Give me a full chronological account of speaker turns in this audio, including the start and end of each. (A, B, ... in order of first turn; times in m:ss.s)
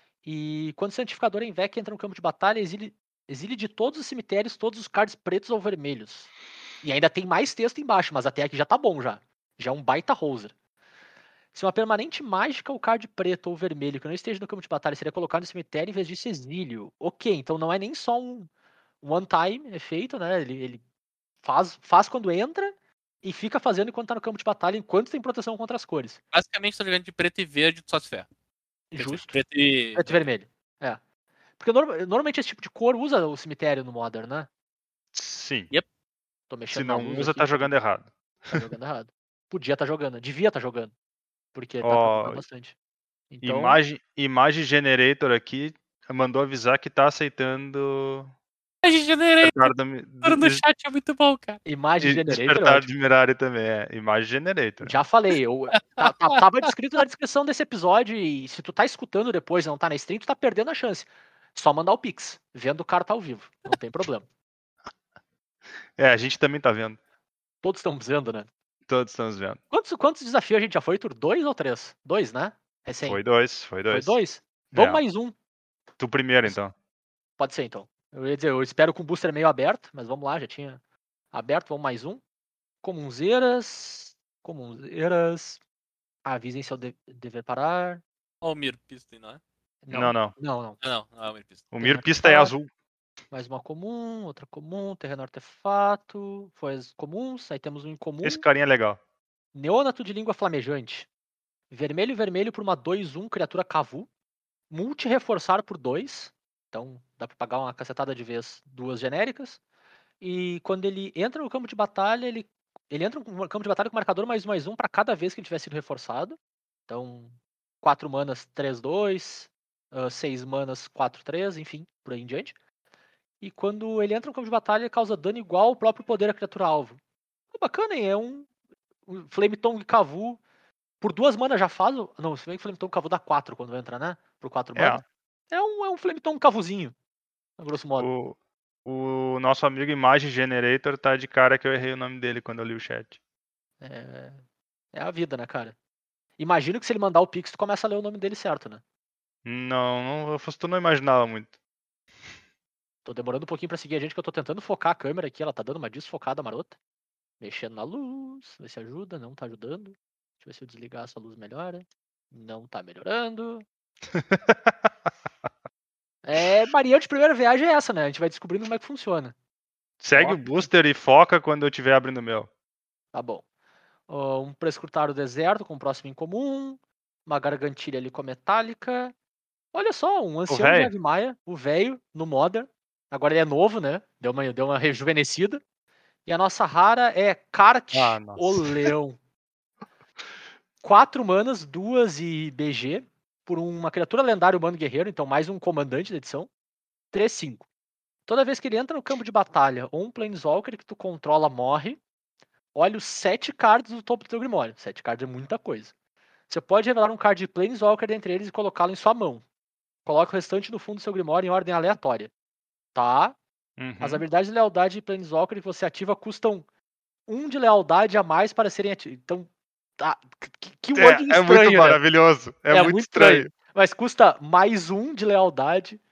0:00.2-0:06.3 A
0:06.8-0:10.5 A
0:11.5-0:18.5 A
0:19.0-0:20.8 A
0:21.4-0:26.2 A
0:26.3-0:28.3 B
0:28.9-0:29.4 A
0:29.0-0:30.2 B
0:30.0-0:31.0 A
0:31.6-0:34.5 A
0:35.1-0:35.7 C
0:36.5-0:37.7 A
0:36.7-0:38.5 C
0:38.5-0:40.9 A
0:41.5-0:42.7 A
0:41.8-0:42.4 C
0:43.3-0:43.8 A
0:43.4-0:48.3 C
0:48.8-0:51.6 B
0:49.4-0:50.6 C
0:51.6-0:52.9 A
0:52.0-0:55.0 C
0:54.8-1:04.2 A
0:55.8-0:56.1 B
1:06.0-1:07.0 C
1:07.6-1:08.5 A
1:08.9-1:09.6 C
1:09.7-1:13.2 A
1:13.0-1:14.2 C
1:13.9-1:15.3 A
1:14.7-1:15.0 C
1:16.0-1:16.7 C
1:17.4-1:20.8 A
1:21.3-1:22.2 A
1:22.8-1:25.6 A
1:26.2-1:28.0 A
1:28.4-1:29.4 B
1:29.8-1:30.8 A
1:29.9-1:30.3 C
1:30.8-1:31.6 B
1:31.7-1:32.7 C
1:31.8-1:32.5 A
1:33.3-1:38.4 A
1:38.2-1:39.0 C
1:39.5-1:41.1 A
1:41.7-1:44.1 A
1:44.7-1:49.6 A
1:50.2-1:56.4 A
1:56.9-2:02.5 A
2:03.4-2:07.0 A
2:07.5-2:08.5 A
2:09.0-2:10.4 A
2:11.0-2:16.9 A
2:14.8-2:15.0 C
2:17.6-2:18.1 A
2:18.0-2:23.2 C
2:23.8-2:24.4 A
2:24.9-2:25.7 A
2:26.4-2:28.8 A
2:29.4-2:31.5 C
2:33.0-2:36.7 A
2:37.4-2:43.6 A
2:44.1-2:44.9 C
2:46.2-2:49.3 A
2:50.0-2:52.5 C
2:50.1-2:50.7 A
2:53.1-2:53.4 A
2:54.1-2:59.1 A
2:59.7-3:05.6 A
3:00.5-3:00.9 C
3:06.2-3:09.2 A
3:07.9-3:08.9 C
3:10.8-3:16.5 A
3:17.1-3:17.6 A
3:18.3-3:22.0 A
3:22.7-3:25.9 A
3:26.5-3:29.4 A
3:30.0-3:32.3 A
3:32.9-3:33.4 A
3:33.8-3:34.2 C
3:34.0-3:36.6 A
3:37.3-3:42.0 A
3:40.9-3:43.5 C
3:42.7-3:46.0 A